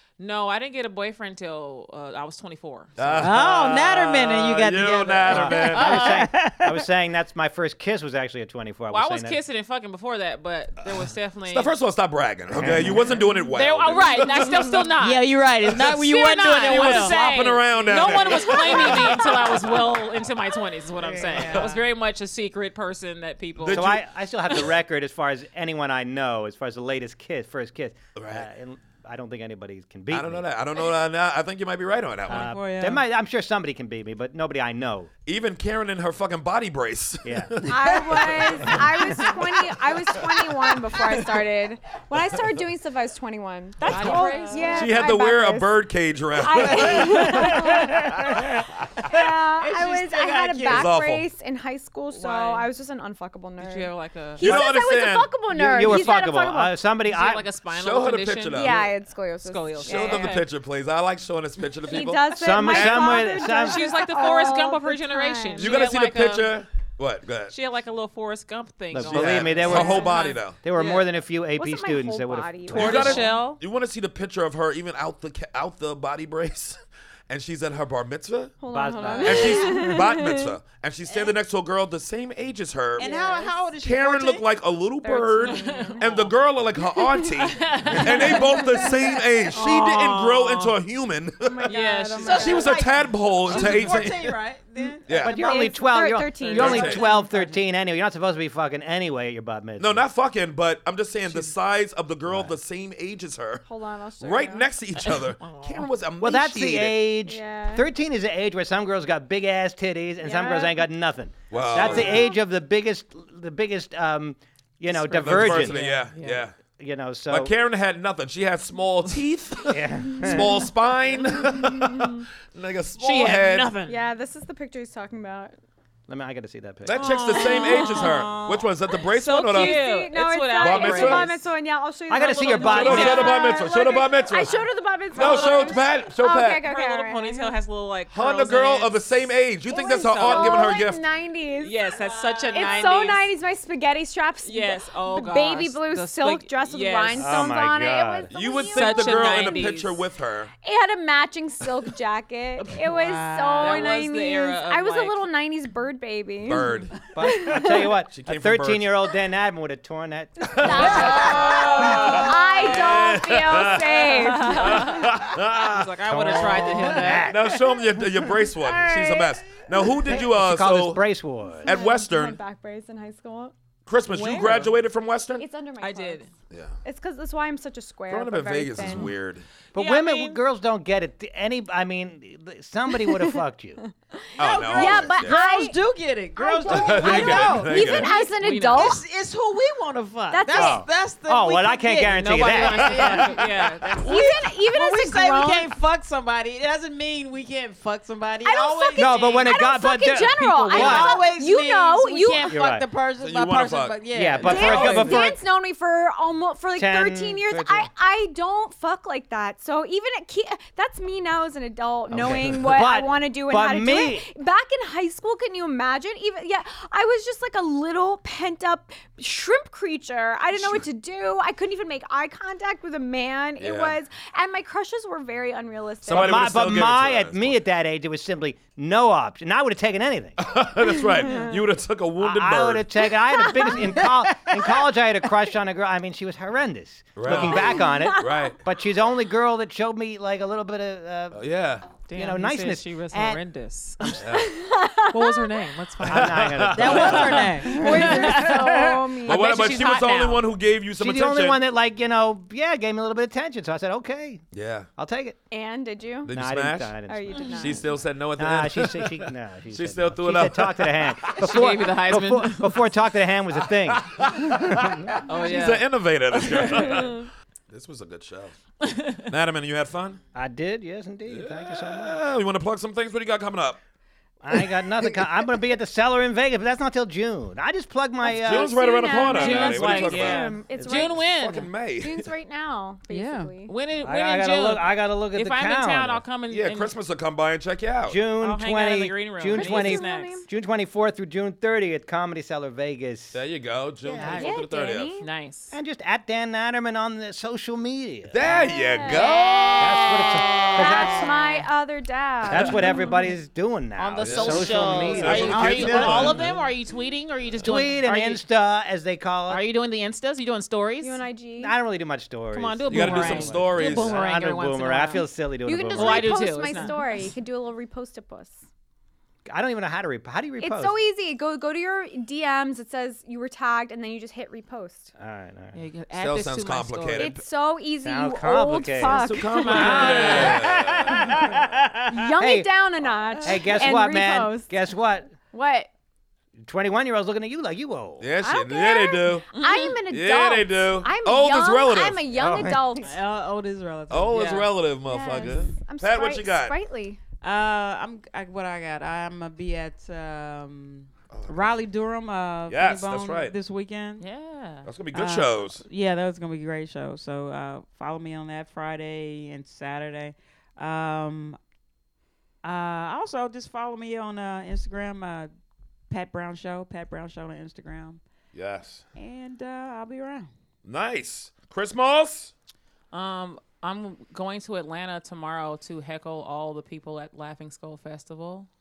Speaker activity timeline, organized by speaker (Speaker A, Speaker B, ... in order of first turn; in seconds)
Speaker A: 0.2-3.3, 5.6-6.2, 8.9-11.7, 13.5-24.0, 43.8-45.0, 52.1-52.7, 53.6-54.6, 55.8-56.2, 57.0-58.9, 59.4-60.5, 62.6-66.5, 67.5-71.1, 72.7-73.6, 85.4-86.3, 87.5-88.8, 89.5-90.8, 91.7-92.7, 105.0-105.9, 115.3-116.5, 123.0-124.0, 127.0-131.4, 132.3-133.4, 135.2-135.9, 136.5-139.0, 139.8-140.8, 141.6-143.3, 144.5-147.3, 148.6-150.0, 153.6-155.2, 160.8-163.3, 164.0-167.3, 174.1-174.7, 175.8-176.3, 179.8-180.4, 187.1-189.0, 192.0-194.2, 242.1-244.2, 245.1-250.5, 261.4-263.1, 265.2-267.3, 268.8-269.3, 279.0-281.7, 283.7-286.9, 288.4-290.4, 295.2-295.7, 300.4-301.6, 304.0-308.4, 309.5-311.2, 312.5-315.3, 315.9-317.3, 325.7-327.4, 329.5-330.7, 339.5-340.0, 344.3-344.7, 354.2-354.9, 373.1-378.7
Speaker B: 3.0-6.0, 11.4-14.7, 15.7-19.6, 21.4-21.8, 23.6-24.0, 28.1-28.5, 30.1-32.5, 35.3-41.4, 43.9-48.6, 50.7-51.3, 54.4-55.3, 57.7-58.8, 59.9-62.2, 65.6-67.5, 69.1-70.6, 72.7-78.5, 79.2-83.1, 83.8-91.7, 92.3-94.4, 95.1-95.4, 96.5-97.0, 99.8-103.6, 104.2-107.1, 111.5-112.3, 114.9-116.5, 117.3-123.7, 126.9-129.8, 130.6-131.3, 132.7-136.6, 138.1-141.0, 148.3-150.5, 156.4-156.9, 158.1-158.9, 160.5-171.0, 171.7-172.4, 173.9-175.4, 178.1-179.4, 184.4-185.4, 186.7-188.2, 192.9-194.0, 203.2-205.0, 220.5-220.8, 223.6-224.0, 226.1-227.6, 230.4-233.1, 237.2-238.6, 241.3-241.9, 244.2-244.6, 246.0-247.6, 249.2-251.6, 254.5-254.9, 256.2-257.0, 257.6-261.7, 263.6-268.6, 269.3-270.2, 271.3-273.8, 278.3-282.3, 286.5-288.2, 293.3-295.1, 298.3-299.8, 304.2-306.6, 312.9-314.2, 326.1-327.4, 329.0-331.7, 338.2-339.5, 340.1-342.3, 344.1-346.8, 351.3-351.8, 352.7-353.6, 354.9-355.8, 368.5-369.0, 370.9-372.5
Speaker C: 3.2-6.8, 15.0-17.2, 21.3-21.7, 32.3-33.0, 44.2-44.7, 47.0-48.4, 49.1-50.9, 83.0-84.4, 92.2-95.8, 96.8-97.3, 152.9-153.9, 184.4-188.0, 188.7-193.5, 194.0-199.5, 200.3-205.3, 246.8-248.8, 283.1-283.5, 305.3-306.1, 333.6-333.8, 343.0-344.4, 347.4-354.2, 355.1-361.6, 362.6-365.5, 366.1-368.2, 369.2-370.5
Speaker D: 5.3-9.4, 12.6-13.0, 23.7-30.4, 32.3-35.1, 37.2-37.7, 55.5-57.5, 62.4-63.9, 68.9-70.1, 70.6-73.2, 78.7-79.9, 95.2-100.1, 102.3-102.5, 106.2-115.9, 116.8-117.5, 119.7-120.6, 126.1-127.0, 132.1-133.3, 147.2-148.3, 157.1-161.5, 166.1-168.3, 170.1-171.7, 179.7-183.8, 190.6-193.1, 199.0-201.2, 202.4-202.9, 204.1-205.3, 206.8-207.9, 212.1-214.3, 226.1-230.4, 232.2-241.4, 242.1-243.4, 246.1-247.4, 251.0-254.4, 255.0-255.4, 256.3-257.6, 258.4-264.1, 270.4-272.2, 274.4-278.7, 284.0-286.2, 288.1-293.4, 294.0-294.6, 295.7-298.7, 299.8-301.4, 302.5-306.4, 307.6-309.6, 311.6-316.5, 319.5-321.0, 325.2-325.8, 328.1-332.7, 333.4-335.3, 336.6-338.3, 342.3-342.9
Speaker E: 18.1-19.7, 37.7-45.8, 46.4-48.3, 49.0-56.8, 58.5-60.3, 61.9-65.8, 69.6-70.3, 71.6-73.4, 78.6-80.5, 83.0-83.6, 85.0-86.0, 87.0-89.2, 91.4-92.9, 93.5-93.9, 94.8-97.1, 103.7-104.7, 107.3-107.8, 110.2-110.9, 111.8-112.3, 120.2-120.6, 121.5-122.2, 123.9-125.6, 127.3-128.4, 129.5-137.6, 139.7-149.8, 150.6-157.9, 160.5-165.1, 171.7-173.5, 175.4-176.3, 176.8-179.1, 183.1-183.3, 183.8-185.8, 186.4-189.0, 190.3-190.8, 194.0-195.7, 198.4-202.5, 204.4-226.5, 231.0-231.6, 233.3-234.4, 237.3-238.5, 244.3-245.7, 247.6-249.8, 255.5-256.3, 257.1-258.0, 278.4-281.4, 282.0-283.7, 289.5-290.5, 294.3-295.3, 298.6-302.9, 311.0-311.7, 315.6-318.6, 320.6-325.1, 327.2-330.6, 332.1-334.8, 335.4-335.9, 338.4-343.2, 345.1-347.2